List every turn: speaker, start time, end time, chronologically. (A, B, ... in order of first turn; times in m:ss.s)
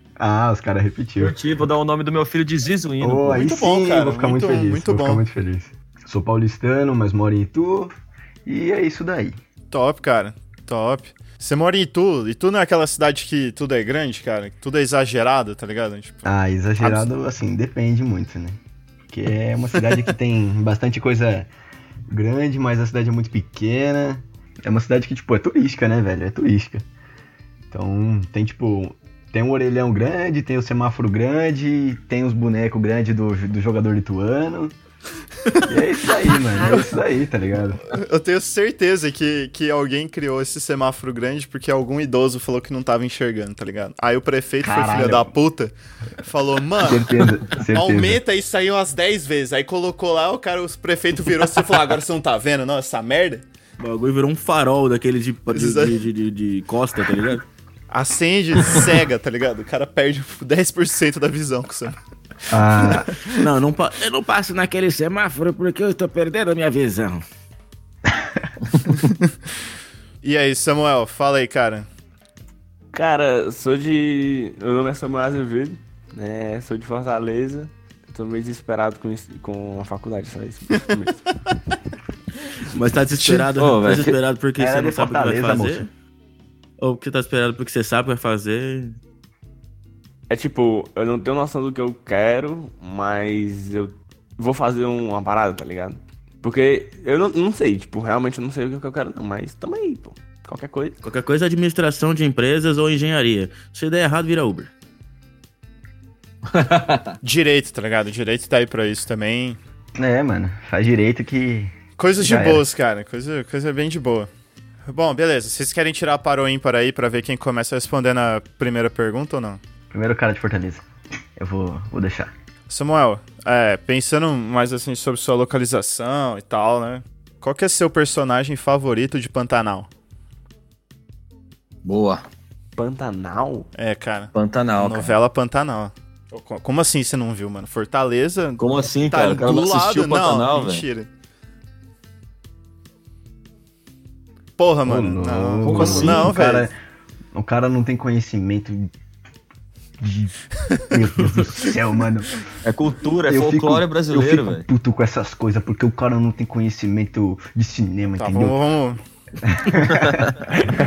0:00.2-0:01.4 A
0:01.2-0:03.5 B
0:03.0-0:07.9 A
0:03.4-0:05.2 C
0:08.4-0:09.4 A
0:09.7-0:16.2 C
0:16.2-0:18.6 A
0:16.8-0:17.1 C
0:19.1-0:21.5 A
0:22.1-0:26.8 A
0:27.7-0:34.7 A
0:35.4-0:35.7 C
0:35.6-0:37.8 A
0:37.9-0:53.4 C
0:44.6-0:45.3 A
0:46.8-0:48.2 A
0:53.8-0:57.4 D
0:55.5-0:55.9 C
0:57.9-1:01.9 C
1:02.5-1:03.1 A
1:02.8-1:03.3 C
1:03.3-1:07.2 D
1:09.0-1:09.3 C
1:10.2-1:11.9 C
1:12.9-1:21.3 E
1:22.7-1:25.9 D
1:23.5-1:24.2 B
1:24.6-1:25.9 A
1:26.8-1:29.0 D
1:30.3-1:41.0 E
1:41.0-1:44.7 D
1:46.5-1:47.1 B
1:47.2-1:49.6 C
1:50.0-1:52.6 A
1:52.0-1:54.3 C
1:54.8-1:59.6 C
1:59.9-2:00.8 A
2:01.4-2:02.3 A
2:02.7-2:09.9 C
2:11.8-2:12.3 B
2:12.8-2:13.7 E
2:13.7-2:21.1 C
2:14.3-2:15.2 B
2:18.6-2:20.8 B
2:24.6-2:26.7 C
2:24.8-2:26.7 A
2:25.6-2:26.3 B
2:27.3-2:28.9 A
2:30.0-2:30.3 A
2:30.9-2:32.4 A
2:32.6-2:34.6 B
2:33.2-2:38.6 A
2:38.2-2:39.0 C
2:39.4-2:40.4 A